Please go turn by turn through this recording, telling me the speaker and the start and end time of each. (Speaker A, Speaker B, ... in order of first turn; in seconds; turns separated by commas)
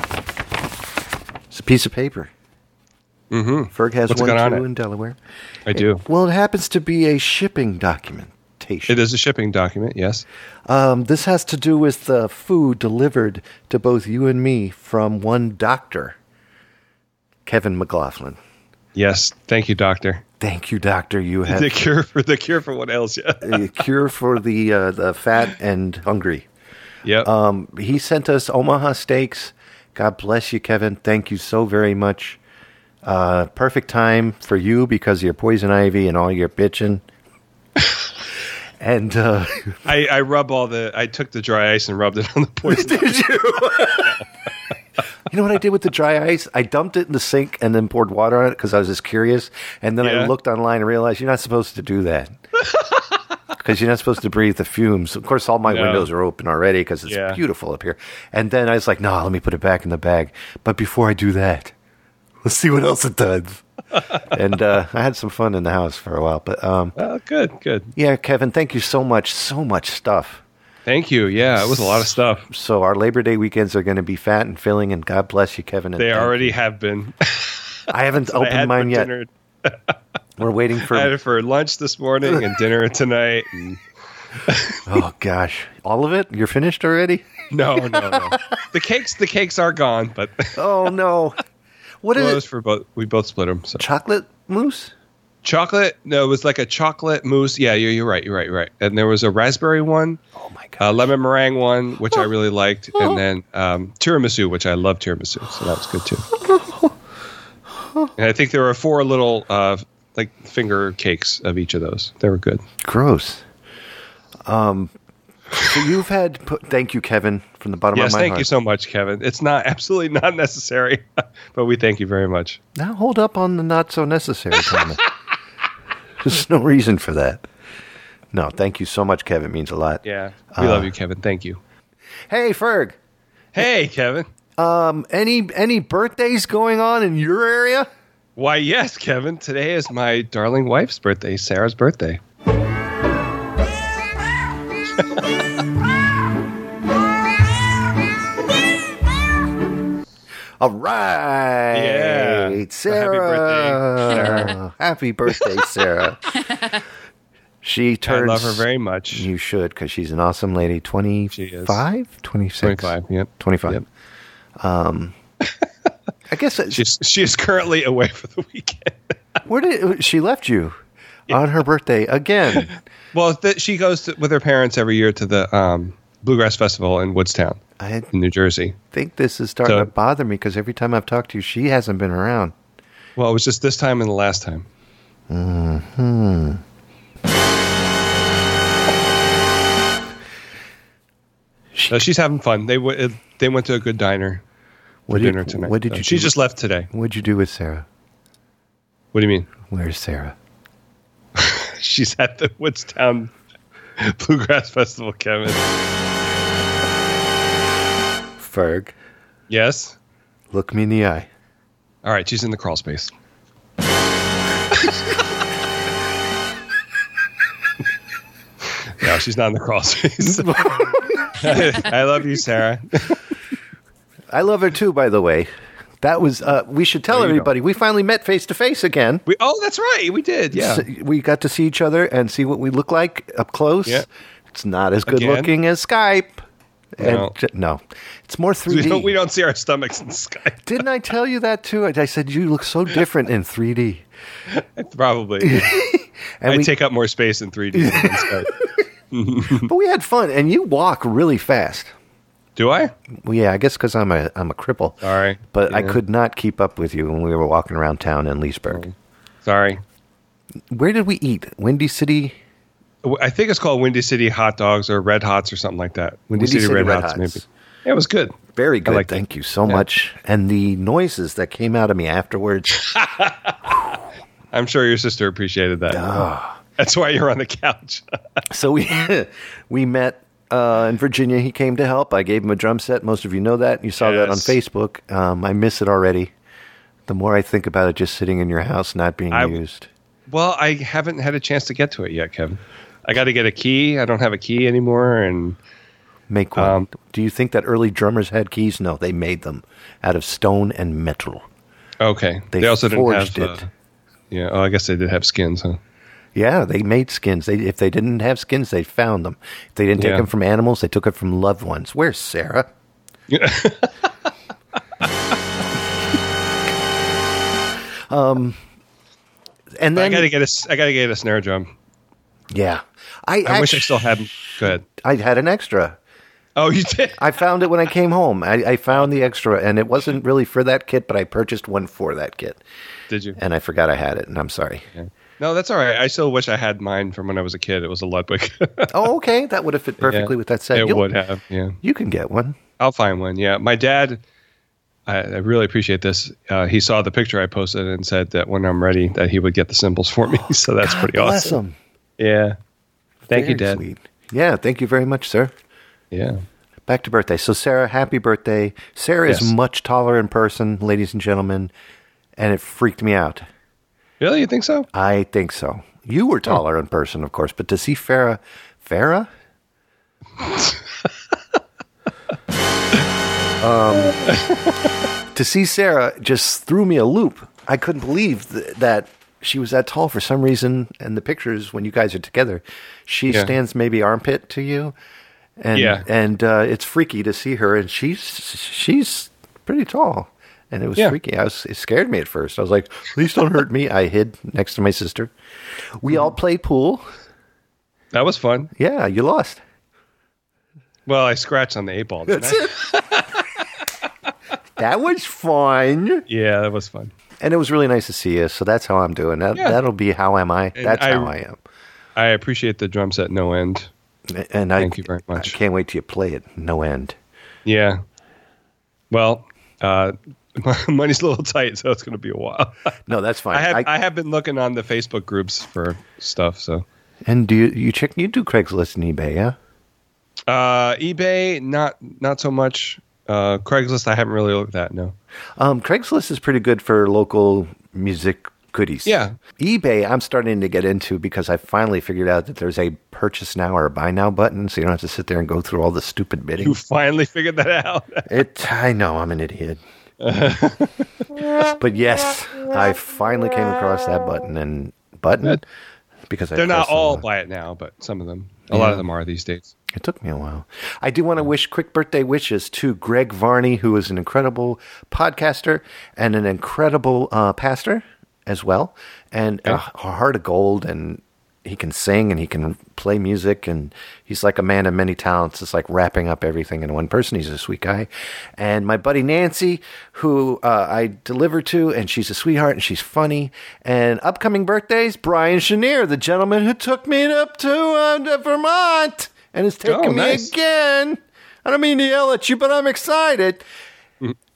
Speaker A: 1.5-2.3, Speaker B: 3.3-4.6, Speaker A: 3.7-5.2, Speaker B: 5.7-6.0, Speaker A: 5.7-9.0, Speaker B: 8.9-10.2, Speaker A: 10.7-16.2, Speaker A: 17.5-18.4, Speaker B: 18.9-20.2, Speaker A: 20.4-21.8, Speaker B: 21.5-23.6, Speaker A: 23.4-26.5, Speaker B: 27.1-27.3, Speaker A: 27.2-32.4, Speaker A: 33.0-37.0, Speaker A: 38.8-39.8, Speaker B: 39.9-44.2, Speaker A: 42.7-44.2, Speaker A: 45.3-52.4, Speaker B: 50.0-50.3, Speaker B: 52.7-53.2, Speaker A: 53.5-61.7, Speaker B: 55.7-56.1, Speaker B: 57.1-57.4, Speaker A: 62.4-63.6, Speaker A: 64.3-67.0, Speaker B: 67.0-67.9, Speaker A: 68.0-70.4, Speaker B: 70.9-72.5, Speaker A: 71.5-76.5, Speaker B: 76.0-80.0, Speaker A: 77.9-79.1, Speaker A: 80.4-81.1, Speaker B: 80.9-83.8, Speaker B: 84.4-84.9, Speaker A: 84.9-88.4, Speaker B: 87.5-90.6, Speaker A: 90.5-91.4, Speaker A: 92.0-92.4, Speaker B: 92.1-93.8, Speaker A: 93.8-94.9, Speaker B: 95.4-100.2, Speaker A: 100.3-101.1, Speaker B: 100.8-106.2, Speaker A: 106.5-106.9, Speaker B: 108.2-112.6, Speaker A: 112.8-113.4, Speaker A: 114.5-114.9, Speaker A: 115.6-118.5, Speaker B: 117.9-122.6, Speaker A: 122.8-125.0, Speaker A: 126.2-127.5, Speaker A: 128.3-130.9, Speaker B: 130.0-131.6, Speaker A: 132.3-133.0, Speaker B: 133.5-134.3, Speaker A: 134.6-137.9, Speaker B: 138.4-142.2, Speaker A: 150.6-156.7, Speaker B: 151.7-154.6, Speaker A: 157.6-163.8, Speaker B: 158.1-159.3, Speaker B: 161.3-161.8, Speaker B: 162.6-163.8, Speaker A: 164.6-165.2, Speaker A: 166.3-166.8, Speaker B: 166.7-169.2, Speaker A: 169.5-170.8, Speaker A: 171.3-172.7, Speaker B: 172.5-177.6, Speaker A: 177.8-178.1, Speaker B: 178.1-178.8, Speaker A: 178.9-182.6, Speaker B: 179.7-179.9, Speaker B: 183.2-184.7, Speaker A: 185.3-186.6, Speaker A: 191.7-192.0, Speaker B: 191.9-194.4, Speaker A: 195.1-196.4, Speaker B: 195.1-196.9, Speaker A: 196.9-197.9, Speaker B: 199.1-199.5, Speaker A: 199.7-200.3, Speaker B: 201.4-203.3, Speaker B: 204.0-205.7, Speaker A: 208.4-208.9, Speaker B: 209.5-210.0, Speaker A: 210.5-211.3, Speaker B: 212.0-213.1, Speaker B: 214.7-215.0, Speaker B: 219.0-220.6, Speaker A: 220.2-221.9, Speaker B: 221.3-223.2, Speaker A: 224.3-225.5, Speaker A: 226.0-229.2, Speaker B: 227.1-227.5, Speaker B: 229.3-230.8, Speaker A: 230.5-236.4, Speaker B: 235.1-235.5, Speaker A: 237.0-239.2, Speaker B: 237.0-237.3, Speaker B: 238.7-240.7, Speaker A: 240.6-244.1, Speaker B: 244.5-245.8, Speaker A: 245.4-246.7, Speaker B: 246.5-248.5, Speaker A: 247.7-248.5, Speaker B: 249.1-249.7, Speaker A: 249.5-251.9, Speaker B: 252.6-252.9, Speaker A: 253.2-255.0, Speaker B: 255.0-256.0, Speaker A: 255.5-258.9, Speaker B: 259.4-259.8, Speaker A: 260.7-262.4, Speaker B: 263.0-269.9, Speaker A: 266.3-267.5, Speaker A: 268.5-272.9, Speaker B: 272.7-273.6, Speaker B: 274.5-276.2, Speaker A: 275.9-276.6, Speaker B: 276.8-278.1, Speaker A: 278.5-286.3, Speaker B: 284.0-284.6, Speaker A: 287.1-289.9, Speaker B: 289.3-289.6, Speaker B: 290.3-295.6, Speaker A: 296.3-301.4, Speaker B: 296.6-296.9, Speaker B: 302.0-303.7, Speaker A: 302.5-303.7, Speaker B: 304.3-305.8, Speaker A: 306.4-312.7, Speaker B: 310.0-310.3, Speaker B: 313.3-313.9, Speaker A: 318.1-318.6, Speaker A: 319.8-320.3, Speaker B: 319.9-321.7, Speaker A: 322.5-326.0, Speaker B: 323.4-324.9, Speaker B: 326.6-327.3, Speaker A: 327.2-332.6, Speaker B: 333.1-333.4, Speaker A: 333.4-334.9, Speaker B: 335.0-338.9, Speaker A: 338.9-341.1, Speaker B: 340.0-341.8, Speaker A: 341.8-342.6, Speaker B: 342.8-344.2, Speaker B: 345.1-351.6, Speaker A: 350.8-351.8, Speaker B: 352.2-352.6, Speaker A: 353.3-355.5, Speaker B: 353.3-353.8, Speaker B: 356.1-356.4, Speaker A: 356.9-361.7, Speaker B: 359.3-359.5, Speaker A: 362.4-363.5, Speaker B: 364.2-364.9, Speaker A: 364.9-369.3, Speaker B: 370.4-370.8, Speaker A: 373.6-374.2, Speaker B: 374.2-374.8, Speaker A: 375.3-384.9, Speaker A: 385.6-395.3, Speaker B: 385.7-386.1, Speaker A: 396.0-397.1, Speaker B: 398.1-398.7, Speaker A: 398.8-399.6, Speaker B: 401.1-403.4, Speaker A: 402.3-402.8, Speaker A: 404.8-406.2, Speaker B: 406.3-407.1, Speaker A: 407.4-411.6, Speaker B: 410.8-411.3, Speaker B: 412.2-413.9, Speaker A: 414.3-417.2, Speaker B: 414.8-415.6, Speaker B: 417.7-418.0, Speaker B: 419.1-422.8, Speaker A: 423.1-423.9, Speaker B: 423.5-426.9, Speaker A: 427.2-429.6, Speaker B: 430.5-435.1, Speaker A: 435.6-446.8, Speaker B: 439.1-439.4, Speaker B: 446.6-448.3, Speaker A: 448.3-449.8, Speaker B: 450.2-451.0, Speaker A: 451.7-455.6, Speaker A: 456.3-457.2, Speaker B: 456.6-459.7, Speaker A: 458.7-459.0, Speaker A: 459.9-493.6, Speaker B: 489.9-490.5